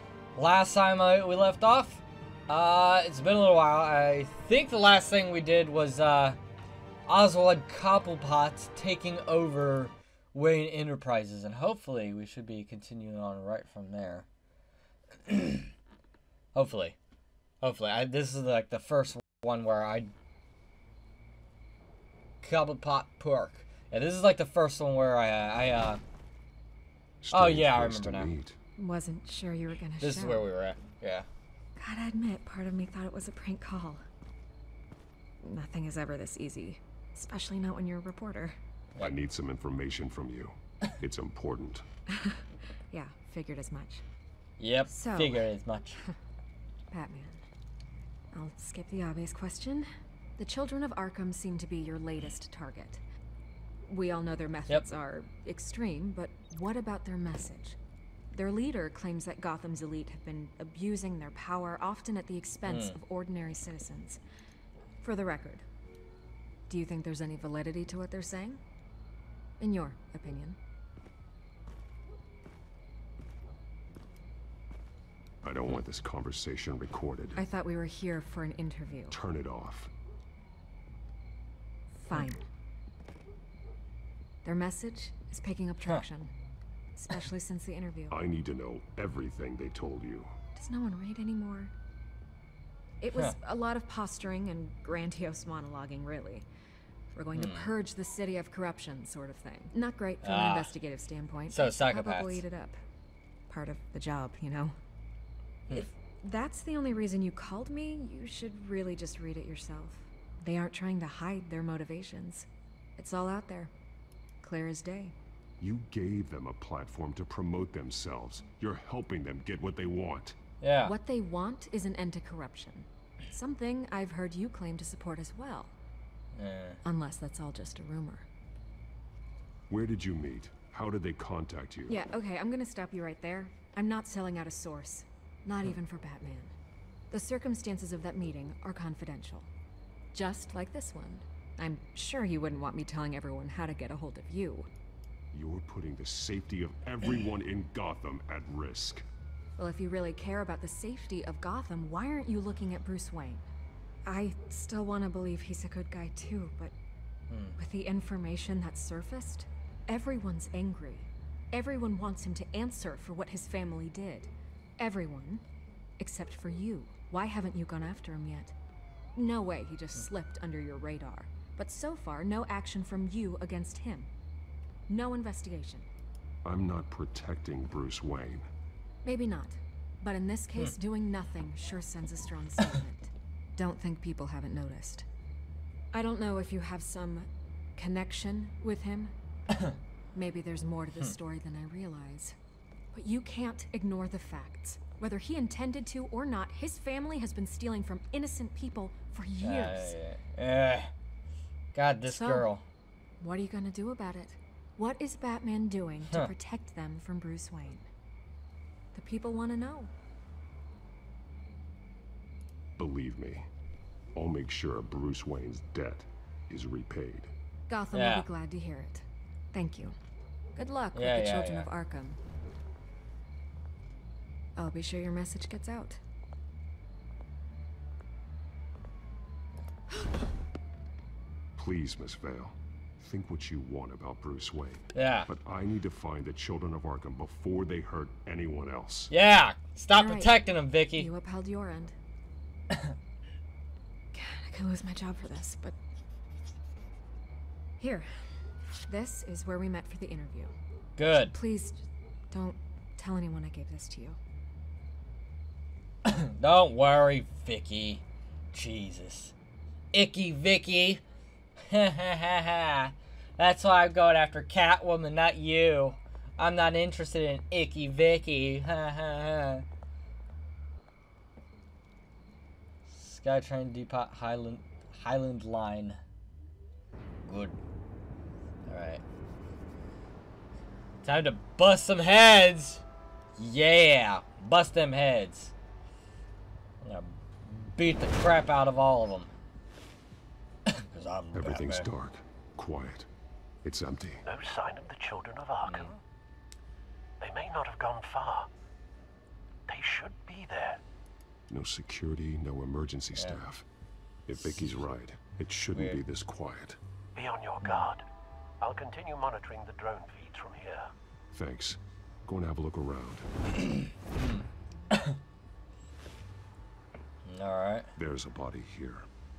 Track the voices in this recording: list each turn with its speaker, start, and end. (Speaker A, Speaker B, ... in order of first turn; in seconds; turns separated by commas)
Speaker A: 0.3-6.4, Speaker A: 7.1-14.2, Speaker A: 15.2-15.7, Speaker A: 16.5-16.9, Speaker A: 17.6-20.1, Speaker A: 22.4-26.0, Speaker B: 27.2-28.6, Speaker A: 27.3-28.3, Speaker C: 28.8-30.5, Speaker A: 30.0-31.3, Speaker C: 31.8-34.0, Speaker C: 35.4-38.6, Speaker B: 39.0-41.8, Speaker C: 42.1-44.0, Speaker A: 44.6-46.0, Speaker C: 44.9-45.6, Speaker C: 46.9-47.4, Speaker C: 48.3-49.9, Speaker C: 50.4-53.0, Speaker C: 53.9-57.8, Speaker C: 58.3-64.2, Speaker A: 62.6-63.0, Speaker C: 65.0-65.6, Speaker C: 66.7-68.6, Speaker C: 69.6-70.6, Speaker B: 75.4-77.4, Speaker C: 77.3-79.2, Speaker B: 79.1-79.9, Speaker C: 82.0-82.4, Speaker C: 84.4-86.3, Speaker C: 87.0-88.2, Speaker B: 88.1-90.3, Speaker C: 90.5-91.7, Speaker C: 93.0-96.5, Speaker C: 97.1-102.8, Speaker A: 97.3-97.7, Speaker A: 100.2-100.7, Speaker A: 101.5-102.4, Speaker C: 103.5-104.8, Speaker C: 105.7-113.7, Speaker C: 114.4-115.1, Speaker B: 115.6-120.3, Speaker A: 120.6-121.0, Speaker C: 120.8-125.7, Speaker A: 126.3-126.8, Speaker C: 126.8-128.2, Speaker B: 129.7-132.0, Speaker C: 131.9-136.5, Speaker C: 137.1-139.5, Speaker C: 140.1-144.7, Speaker B: 145.3-149.0, Speaker C: 149.6-153.4, Speaker C: 154.1-156.7, Speaker A: 157.3-157.6, Speaker C: 157.6-165.4, Speaker C: 166.0-168.5, Speaker C: 169.1-174.1, Speaker C: 174.9-175.9, Speaker B: 176.4-178.5, Speaker C: 179.0-185.1, Speaker C: 185.9-189.1, Speaker C: 190.1-192.3, Speaker C: 192.9-199.9, Speaker A: 199.4-200.9, Speaker A: 201.7-202.6, Speaker C: 202.1-202.5, Speaker C: 203.2-207.8, Speaker A: 206.1-206.3, Speaker C: 208.9-209.9, Speaker B: 212.8-213.5, Speaker B: 214.1-217.3, Speaker C: 217.7-219.9, Speaker A: 217.9-218.3, Speaker C: 220.6-222.2, Speaker A: 220.9-221.7, Speaker C: 224.6-226.0, Speaker B: 231.6-239.1, Speaker A: 234.9-235.3, Speaker A: 239.1-241.1, Speaker C: 239.9-241.9, Speaker C: 244.1-245.8, Speaker C: 247.8-248.1, Speaker C: 248.9-250.5, Speaker A: 251.0-251.3, Speaker C: 251.3-254.2, Speaker A: 256.0-259.3, Speaker A: 259.9-261.0, Speaker A: 261.7-269.6, Speaker A: 272.9-276.0, Speaker A: 277.2-277.6, Speaker A: 278.7-279.0, Speaker A: 281.0-282.8, Speaker A: 283.4-285.5, Speaker A: 286.8-289.3, Speaker A: 290.7-291.9, Speaker B: 291.3-293.1, Speaker B: 293.6-294.2, Speaker D: 294.2-295.9, Speaker A: 295.6-295.9, Speaker D: 297.2-298.5, Speaker D: 299.7-300.8, Speaker B: 301.5-303.6, Speaker B: 304.3-306.8, Speaker A: 305.7-306.0, Speaker D: 307.1-308.0, Speaker D: 308.6-310.9, Speaker B: 311.3-313.3, Speaker A: 314.2-315.2, Speaker A: 317.2-317.9, Speaker B: 317.9-319.1